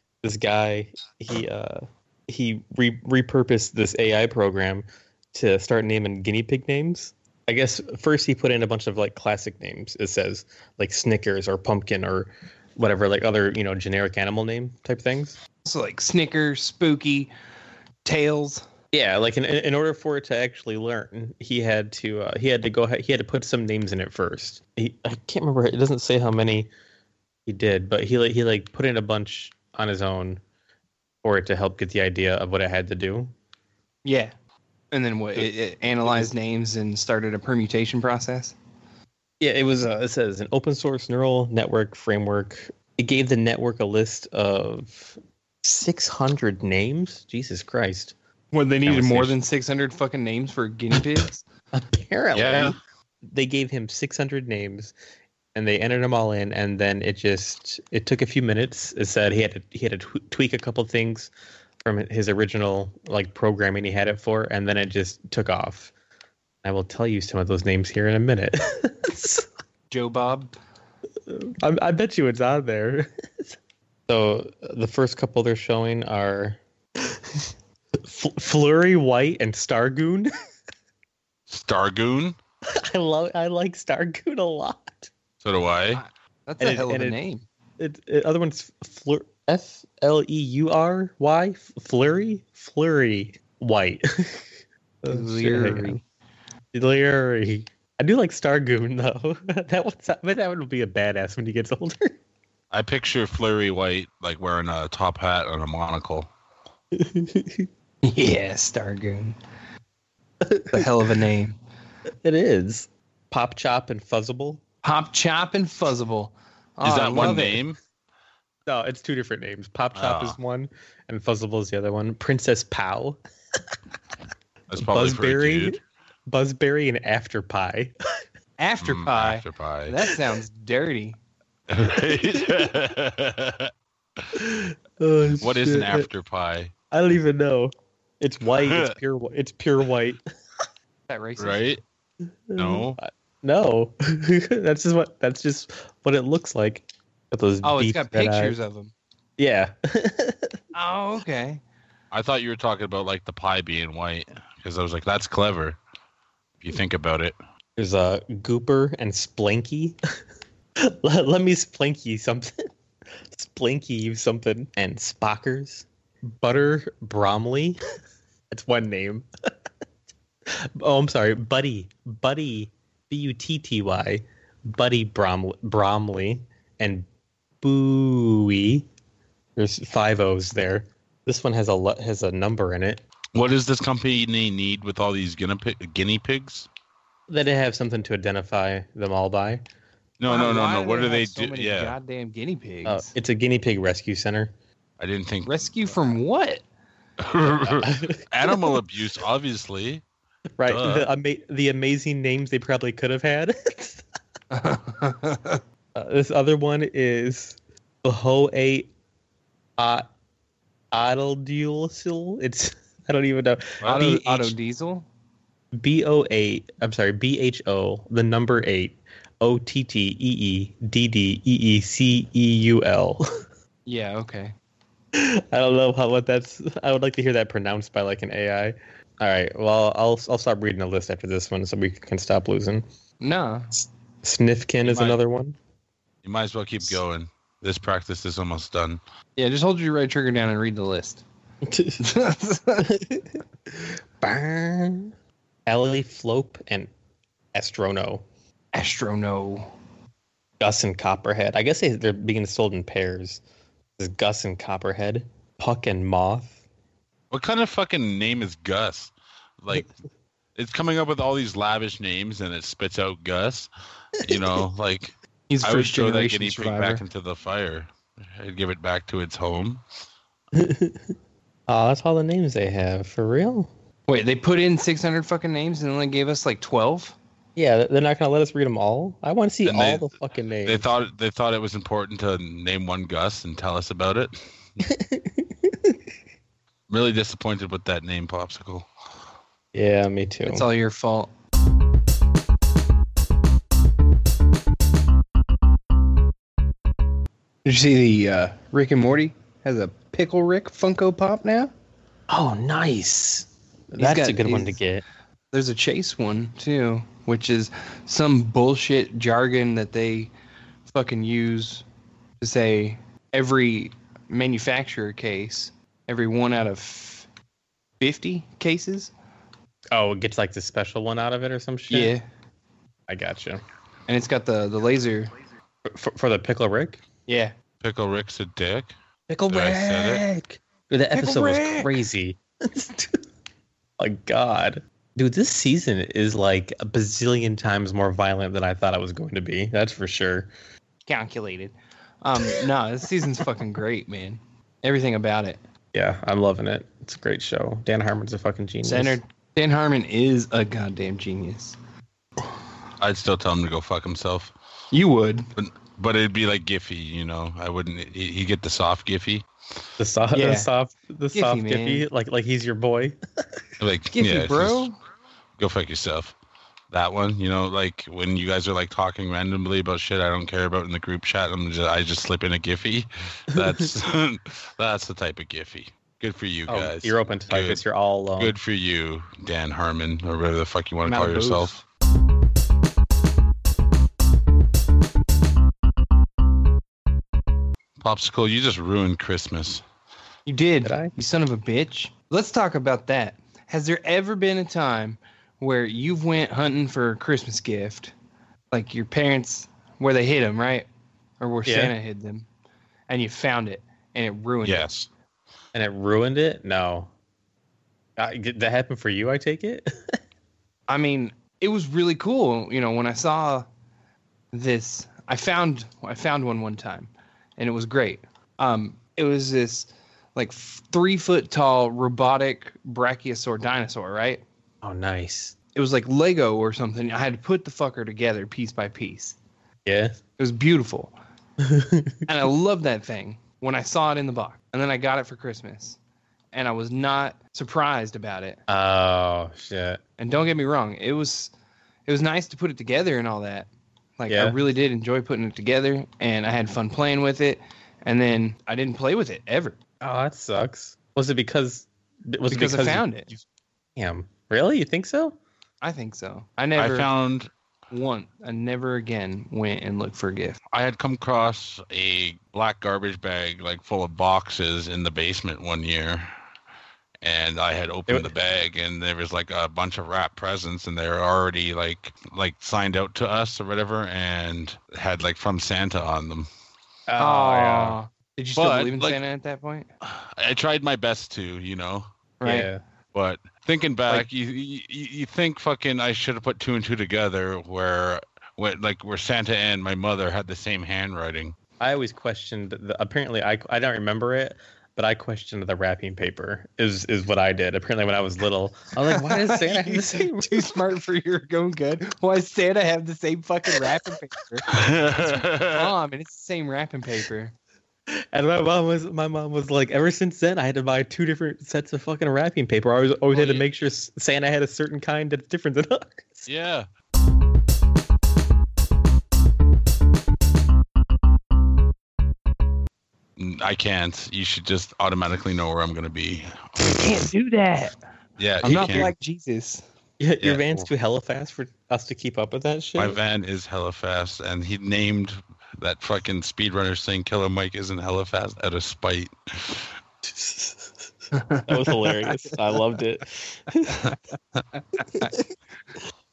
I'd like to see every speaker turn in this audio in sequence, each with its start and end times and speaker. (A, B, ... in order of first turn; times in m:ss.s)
0:00.2-0:15.4 A
0:15.6-0:17.3 B
0:18.0-0:18.6 B
0:18.9-0:26.7 A
0:27.4-0:30.4 A
0:31.2-0:33.3 A
0:34.0-0:34.3 B
0:34.9-0:38.6 B
0:39.4-0:48.1 A
0:48.5-0:51.4 B
0:48.8-0:49.3 C
0:51.7-0:52.8 A
0:52.3-0:52.8 C
0:53.3-0:54.9 A
0:55.5-1:01.3 A
1:01.8-1:05.9 A
1:06.6-1:09.4 A
1:09.9-1:10.5 B
1:11.3-1:13.6 A
1:14.1-1:17.5 A
1:18.0-1:20.3 A
1:21.5-1:22.4 C
1:22.7-1:25.1 A
1:25.4-1:26.0 C
1:25.9-1:27.4 B
1:26.6-1:27.2 A
1:27.8-1:34.5 A
1:35.0-1:36.0 A
1:35.1-1:36.0 B
1:36.7-1:42.2 A
1:42.7-1:46.3 C
1:46.9-1:47.7 A
1:48.0-1:49.4 B
1:50.4-1:50.8 A
1:50.7-1:51.6 B
1:52.2-1:54.6 A
1:54.8-1:57.6 B
1:56.8-1:57.8 C
1:58.7-2:03.2 A
1:59.9-2:00.4 C
2:04.7-2:05.8 C
2:04.8-2:07.9 A
2:08.6-2:11.2 B
2:08.8-2:10.0 C
2:11.7-2:13.7 C
2:14.4-2:16.1 A
2:15.4-2:16.7 C
2:16.9-2:20.2 A
2:18.6-2:19.0 C
2:21.1-2:21.6 B
2:21.4-2:21.8 C
2:22.5-2:28.6 A
2:22.6-2:23.0 C
2:27.6-2:28.9 B
2:29.4-2:30.5 A
2:30.7-2:31.6 B
2:32.1-2:35.8 C
2:36.6-2:37.4 C
2:37.8-2:40.0 A
2:40.8-2:42.7 A
2:43.3-2:47.8 A
2:48.5-2:49.2 A
2:50.5-2:57.0 A
2:57.6-2:58.9 A
2:59.6-3:03.0 A
3:03.3-3:06.7 C
3:07.3-3:09.6 A
3:10.2-3:11.9 C
3:10.3-3:13.1 B
3:12.8-3:14.5 A
3:15.0-3:15.6 C
3:15.4-3:16.6 B
3:17.2-3:20.0 C
3:17.8-3:18.2 A
3:20.6-3:24.0 A
3:20.7-3:21.1 C
3:24.5-3:25.6 B
3:25.9-3:28.9 A
3:29.8-3:30.0 A
3:30.9-3:34.5 A
3:33.8-3:35.1 B
3:35.7-3:43.2 A
3:43.8-3:44.5 B
3:45.1-3:52.8 A
3:53.2-3:53.7 B
3:53.8-3:55.6 A
3:54.8-3:55.2 C
3:56.2-3:59.0 C
3:59.4-4:01.2 B
4:01.7-4:02.0 A
4:02.0-4:02.9 B
4:02.8-4:05.1 A
4:05.6-4:06.9 A
4:07.5-4:08.2 A
4:08.7-4:09.7 B
4:10.6-4:13.4 A
4:14.0-4:16.6 A
4:17.3-4:19.9 C
4:20.5-4:29.8 C
4:25.5-4:27.0 B
4:30.5-4:31.1 A
4:31.7-4:33.7 A
4:34.1-4:37.2 B
4:37.6-4:40.9 A
4:39.6-4:40.1 C
4:40.6-4:44.4 C
4:44.8-4:45.9 A
4:46.9-4:48.9 C
4:49.7-4:50.6 A
4:50.4-4:51.3 B
4:57.6-5:01.7 B
5:02.3-5:05.0 A
5:04.0-5:04.8 B
5:05.5-5:10.3 B
5:10.9-5:11.8 B
5:12.4-5:17.3 B
5:18.0-5:19.1 B
5:19.9-5:22.1 A
5:21.9-5:22.2 B
5:23.1-5:23.6 A
5:24.1-5:25.3 B
5:25.8-5:27.0 A
5:27.3-5:27.5 B
5:27.8-5:28.9 C
5:29.3-5:33.2 A
5:29.5-5:30.2 C
5:31.1-5:32.0 B
5:34.0-5:40.5 A
5:41.0-5:45.6 B
5:45.9-5:49.2 A
5:48.8-5:51.8 B
5:53.0-5:54.5 C
5:54.9-5:55.5 B
5:55.6-5:59.5 C
6:00.0-6:03.2 A
6:00.3-6:00.7 B
6:01.3-6:02.0 B
6:03.8-6:04.9 C
6:04.1-6:04.9 B
6:05.6-6:06.3 C
6:06.9-6:17.8 C
6:16.7-6:18.6 A
6:18.4-6:21.8 C
6:21.0-6:21.7 B
6:28.0-6:29.8 C
6:30.4-6:38.1 B
6:30.8-6:31.1 A
6:38.7-6:40.9 B
6:41.4-6:42.5 B
6:41.6-6:41.9 A
6:43.1-6:44.9 B
6:44.6-6:45.1 C
6:45.7-6:47.1 A
6:48.2-6:50.2 A
6:50.9-6:53.7 B
6:54.5-7:04.4 B
7:04.8-7:05.5 A
7:05.7-7:09.4 B
7:09.8-7:10.2 A
7:10.4-7:11.1 B
7:11.6-7:12.2 A
7:12.3-7:16.0 B
7:16.5-7:18.6 B
7:18.7-7:20.0 A
7:20.2-7:21.5 B
7:22.0-7:29.8 B
7:24.3-7:24.6 A
7:30.0-7:33.4 A
7:32.5-7:33.3 B
7:34.0-7:35.4 A
7:35.8-7:37.1 B
7:36.8-7:37.5 C
7:37.9-7:40.6 B
7:40.7-7:46.3 C
7:47.2-7:56.5 C
7:57.1-7:58.0 A
7:57.2-7:59.9 B
7:58.5-7:59.2 C
8:00.0-8:02.1 C
8:02.4-8:02.7 B
8:02.4-8:02.8 A
8:03.1-8:11.5 C
8:11.8-8:20.7 A
8:19.1-8:24.7 B
8:24.7-8:25.9 C
8:25.6-8:27.5 B
8:28.3-8:36.5 A
8:33.3-8:33.6 C
8:36.4-8:36.9 C
8:43.4-8:47.3 C
8:46.8-8:47.9 B
8:48.4-8:49.1 C
8:48.6-8:49.8 B
8:48.8-8:49.1 A
8:50.2-8:53.2 A
8:50.4-8:50.9 C
8:53.0-9:00.0 C
9:00.2-9:00.9 A
9:01.3-9:02.6 B
9:01.6-9:04.0 A
9:04.0-9:04.6 C
9:04.9-9:05.3 B
9:05.2-9:05.4 A